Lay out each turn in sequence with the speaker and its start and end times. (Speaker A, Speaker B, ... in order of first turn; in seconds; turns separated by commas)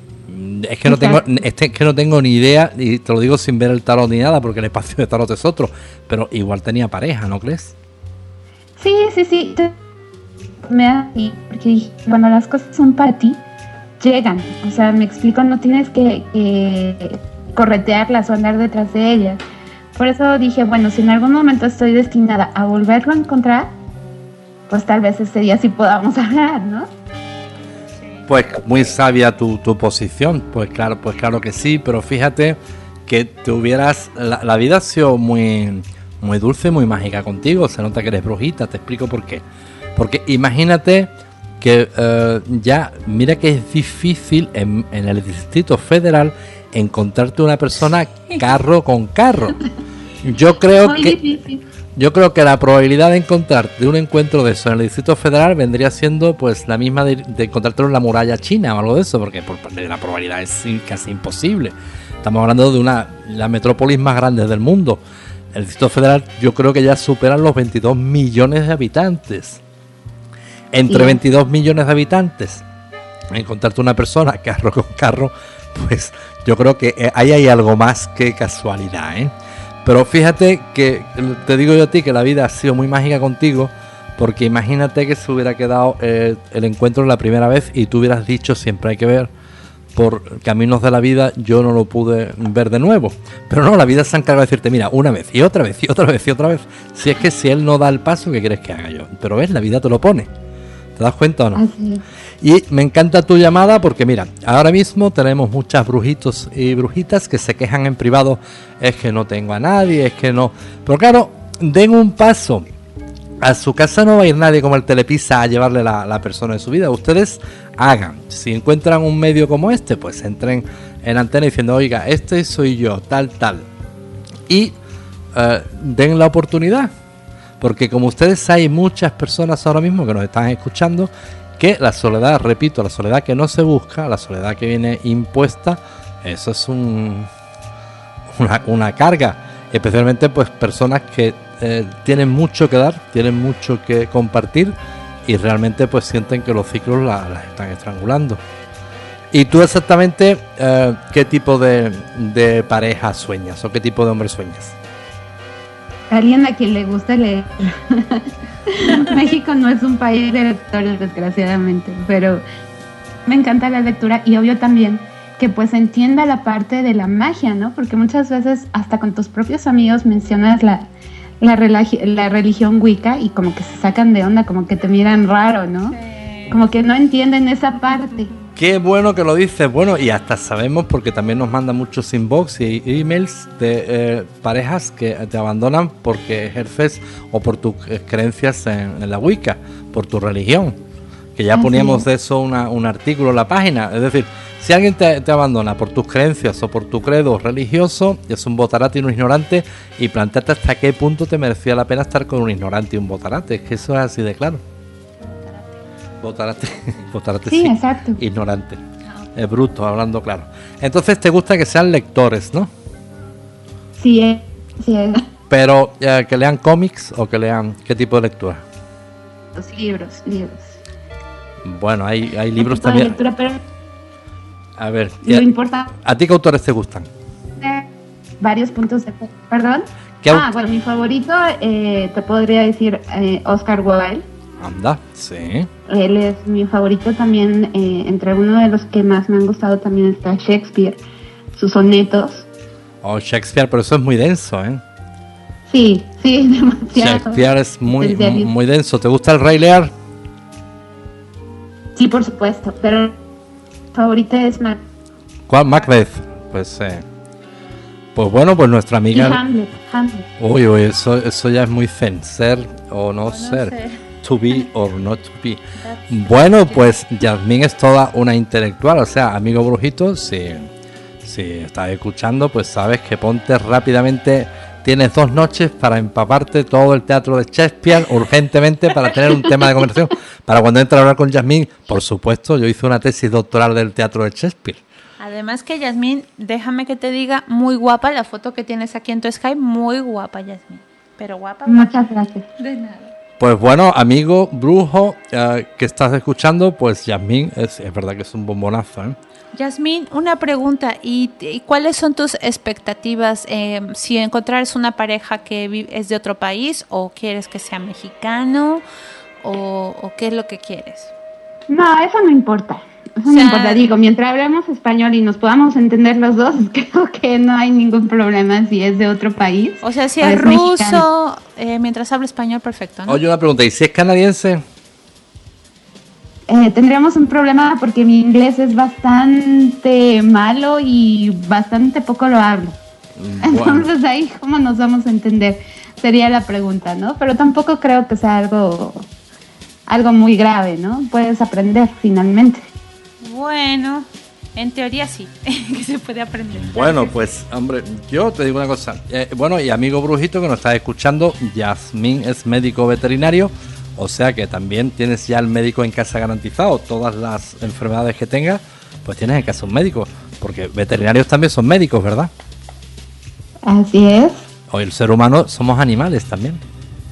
Speaker A: 0.3-7.8, Speaker B: 0.9-1.3, Speaker B: 8.8-9.7, Speaker B: 10.7-13.4, Speaker B: 14.0-19.4, Speaker B: 20.0-23.7, Speaker B: 24.7-26.9, Speaker A: 28.3-39.4, Speaker A: 40.0-49.6, Speaker A: 50.2-51.2, Speaker B: 50.8-51.6, Speaker A: 52.0-65.0, Speaker A: 65.5-69.6, Speaker A: 70.7-72.6, Speaker B: 70.9-71.2, Speaker A: 73.3-79.3, Speaker A: 79.8-89.3, Speaker A: 90.0-100.3, Speaker A: 101.0-101.6, Speaker B: 101.5-102.0, Speaker A: 102.4-112.7, Speaker A: 113.4-123.7, Speaker A: 124.5-124.8, Speaker A: 125.3-126.9, Speaker A: 127.6-137.3, Speaker A: 138.3-148.4, Speaker A: 149.3-154.8, Speaker B: 156.1-162.4, Speaker B: 163.3-170.9, Speaker B: 171.4-176.0, Speaker C: 175.9-176.5, Speaker B: 176.5-178.3, Speaker A: 178.6-190.8, Speaker A: 191.4-204.6, Speaker B: 191.5-192.1, Speaker C: 205.2-205.8, Speaker A: 206.2-208.8, Speaker B: 207.5-208.2, Speaker A: 209.3-212.7, Speaker B: 214.0-215.2, Speaker A: 215.5-218.6, Speaker B: 219.6-220.8, Speaker A: 221.6-223.2, Speaker B: 222.6-223.6, Speaker A: 224.8-225.5, Speaker B: 225.2-225.9, Speaker A: 226.0-227.1, Speaker B: 227.6-227.9, Speaker B: 228.4-234.2, Speaker A: 230.2-230.5, Speaker A: 234.6-235.7, Speaker B: 235.9-241.0, Speaker B: 241.6-242.4, Speaker A: 243.0-244.8, Speaker B: 245.7-248.5, Speaker A: 247.0-249.9, Speaker B: 252.0-253.2, Speaker B: 253.9-254.8, Speaker A: 255.5-257.0, Speaker A: 258.1-259.4, Speaker B: 259.1-260.2, Speaker A: 260.4-270.7, Speaker C: 263.3-264.0, Speaker C: 265.8-266.8, Speaker A: 271.2-284.8, Speaker C: 285.2-292.0, Speaker B: 291.7-292.5, Speaker C: 292.6-293.1, Speaker A: 293.4-299.2, Speaker C: 299.6-308.8, Speaker C: 309.4-311.1, Speaker B: 311.7-321.1, Speaker C: 313.3-313.8, Speaker C: 319.8-323.2, Speaker A: 323.1-324.6, Speaker B: 326.5-332.8, Speaker A: 333.2-333.9, Speaker B: 333.4-339.1, Speaker B: 339.9-342.6, Speaker C: 343.2-347.1, Speaker A: 346.6-362.3, Speaker B: 363.6-364.4, Speaker A: 364.7-366.6